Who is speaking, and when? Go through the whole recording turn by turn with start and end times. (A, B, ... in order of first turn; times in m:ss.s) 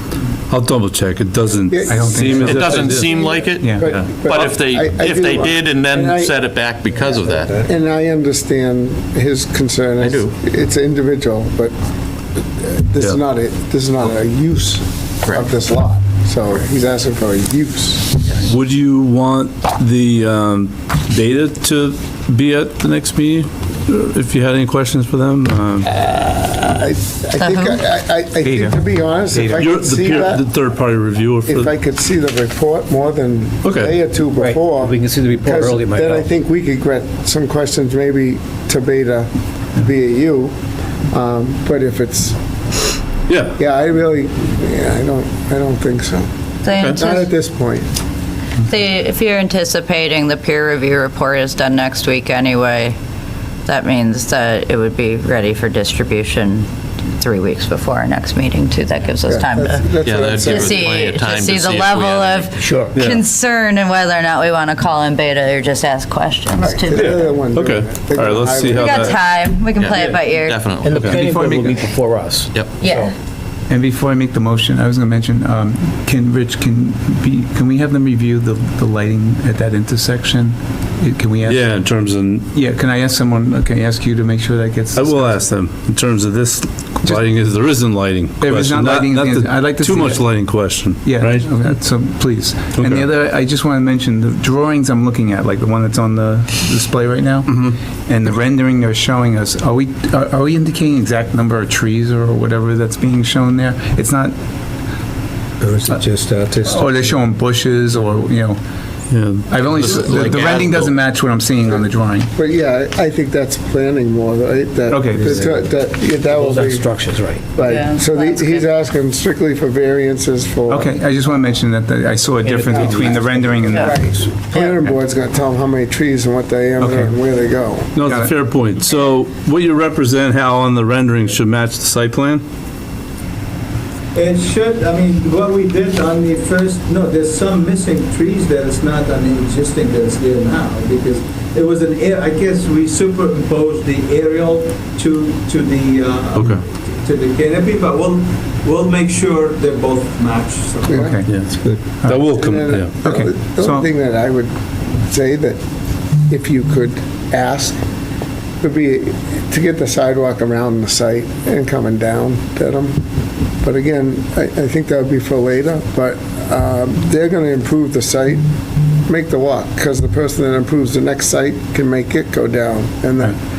0:00.5-0:03.1 A
0:01.7-0:06.4 B
0:01.8-0:03.0 C
0:02.4-0:07.6 D
0:03.6-0:04.0 C
0:07.1-0:11.7 B
0:10.0-0:10.3 D
0:12.4-0:18.2 B
0:15.2-0:15.5 D
0:18.4-0:25.9 A
0:25.8-0:30.4 B
0:27.4-0:27.8 E
0:28.4-0:30.1 C
0:29.6-0:31.7 A
0:31.4-0:40.5 B
0:33.6-0:33.9 A
0:34.4-0:36.3 F
0:41.1-0:42.4 B
0:43.3-0:43.6 A
0:43.6-0:47.9 B
0:46.6-0:47.3 E
0:48.7-0:53.0 E
0:53.6-1:07.3 E
0:59.2-1:01.0 B
1:00.0-1:02.6 D
1:02.6-1:02.9 F
1:02.9-1:03.2 A
1:06.6-1:09.1 B
1:06.9-1:09.2 A
1:08.6-1:10.9 E
1:09.8-1:11.2 D
1:10.8-1:13.1 F
1:10.9-1:11.2 A
1:11.1-1:11.9 C
1:12.5-1:12.8 D
1:12.7-1:13.1 E
1:13.7-1:22.0 C
1:21.4-1:22.5 A
1:22.5-1:25.5 C
1:24.9-1:31.8 A
1:27.0-1:27.6 C
1:28.4-1:44.3 C
1:32.7-1:33.1 A
1:37.5-1:37.7 A
1:46.6-1:48.6 C
1:49.1-1:49.5 A
1:49.5-1:52.3 C
1:49.6-1:50.9 D
1:52.4-2:01.0 B
1:54.9-1:55.4 C
1:55.2-1:55.5 F
1:56.4-1:57.4 F
1:57.6-1:58.6 E
2:00.7-2:04.1 C
2:02.4-2:03.3 F
2:02.6-2:07.9 B
2:06.8-2:07.3 C
2:07.9-2:12.4 A
2:08.0-2:08.4 C
2:14.1-2:31.2 G
2:26.4-2:26.6 A
2:30.9-2:32.3 C
2:30.9-2:31.2 B
2:31.3-2:33.0 A
2:32.2-2:35.6 B
2:33.0-2:33.9 C
2:36.3-2:37.8 B
2:38.6-2:43.0 B
2:43.6-2:48.4 B
2:49.1-2:53.4 B